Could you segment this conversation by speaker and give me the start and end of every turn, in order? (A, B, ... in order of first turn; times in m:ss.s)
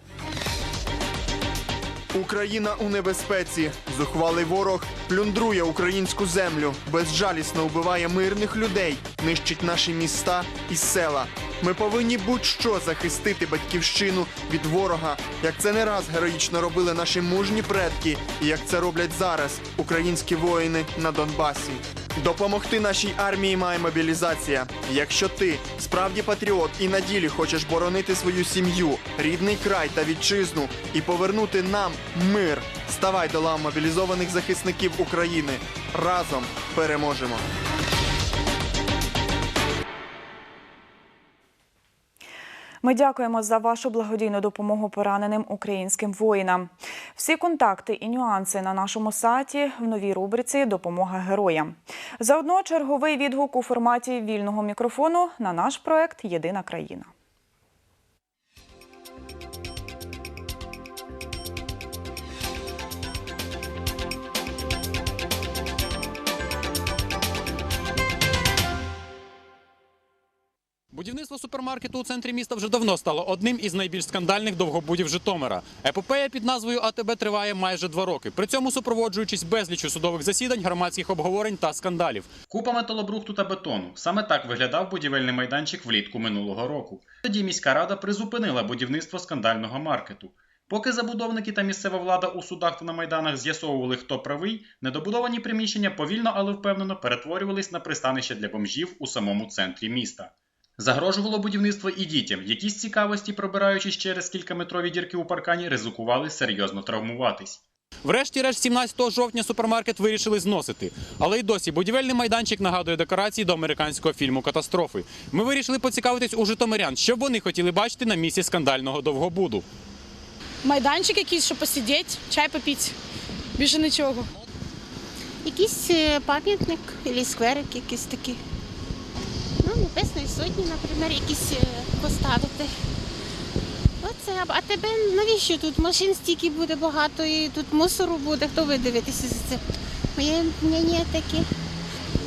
0:02.1-0:37.5 A
0:42.8-0:57.1 B
1:10.9-1:22.3 C
1:22.5-1:47.6 D
1:48.0-1:59.6 C
2:00.6-2:03.0 E
2:03.6-2:04.3 E
2:05.4-2:08.4 F
2:09.6-2:12.7 F
2:14.0-2:19.6 F
2:20.2-2:21.5 F